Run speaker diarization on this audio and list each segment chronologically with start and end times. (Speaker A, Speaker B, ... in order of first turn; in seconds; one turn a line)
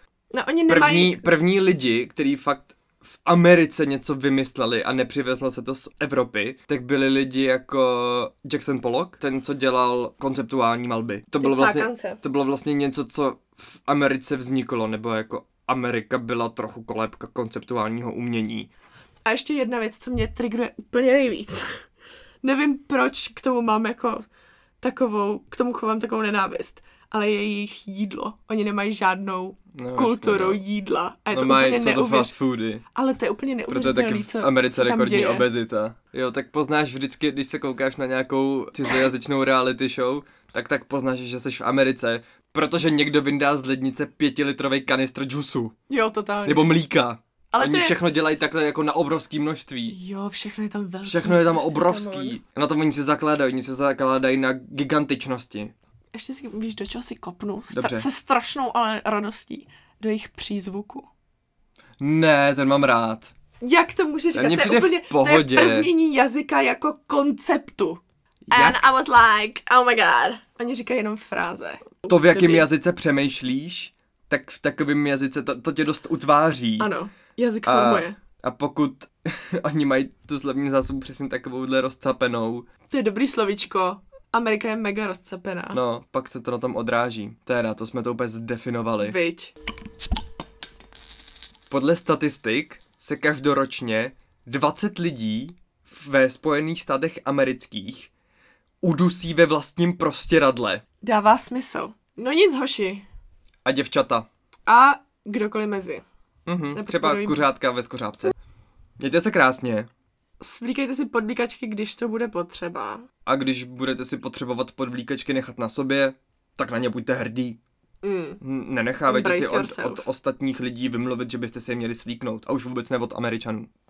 Speaker A: 0.3-1.3
Speaker B: 0.7-18.7
Speaker A: 11.4-12.2
Speaker A: 19.3-21.7
Speaker A: 22.4-24.2
Speaker A: 24.8-32.3
Speaker B: 29.7-30.6
Speaker B: 31.3-32.8
Speaker A: 32.9-35.5
Speaker B: 33.7-45.7
Speaker A: 45.9-46.7
Speaker B: 46.5-50.0
Speaker A: 47.5-47.9
Speaker A: 49.9-52.4
Speaker B: 51.0-55.7
Speaker A: 56.1-61.1
Speaker B: 57.7-58.1
Speaker B: 62.0-63.3
Speaker A: 63.6-68.0
Speaker B: 64.3-65.9
Speaker B: 68.5-68.9
Speaker A: 68.5-72.7
Speaker B: 72.1-76.9
Speaker A: 76.8-78.1
Speaker B: 77.7-82.7
Speaker A: 82.9-85.8
Speaker B: 85.7-89.2
Speaker A: 89.0-89.5
Speaker B: 91.7-98.1
Speaker B: 98.8-100.8
Speaker A: 101.0-103.0
Speaker B: 103.6-104.3
Speaker A: 104.7-106.0
Speaker B: 106.5-108.3
Speaker A: 106.7-107.5
Speaker B: 109.0-109.9
Speaker A: 110.4-113.0
Speaker B: 113.2-117.6
Speaker A: 118.0-118.4
Speaker B: 118.4-123.7
Speaker A: 119.0-120.1